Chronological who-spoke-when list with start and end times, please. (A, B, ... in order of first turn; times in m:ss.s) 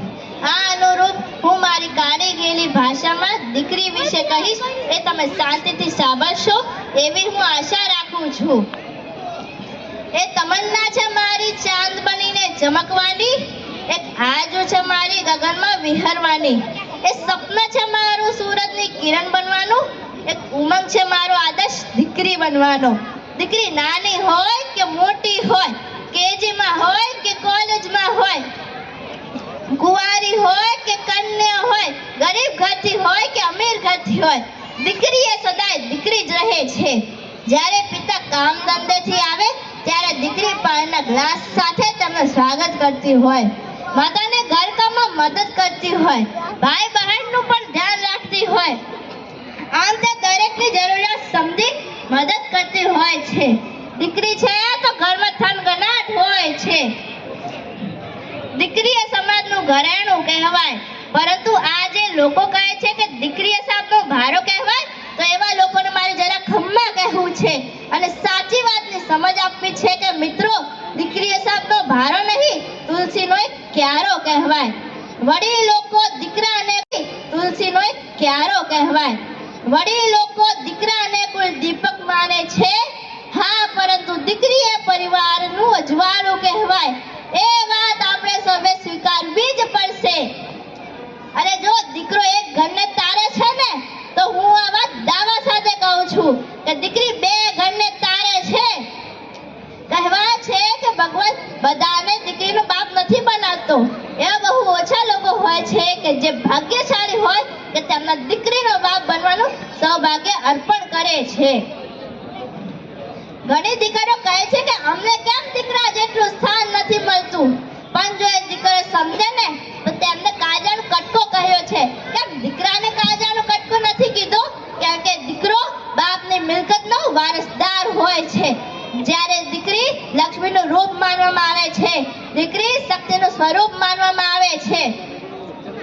0:00.4-0:08.7 A
0:10.1-0:28.4 A
0:29.7-0:48.8 A
0:49.7-0:56.9 A
0:58.5-1:30.3 A
1:31.3-1:38.9 A
1:39.9-1:51.6 A
1:53.4-2:14.9 A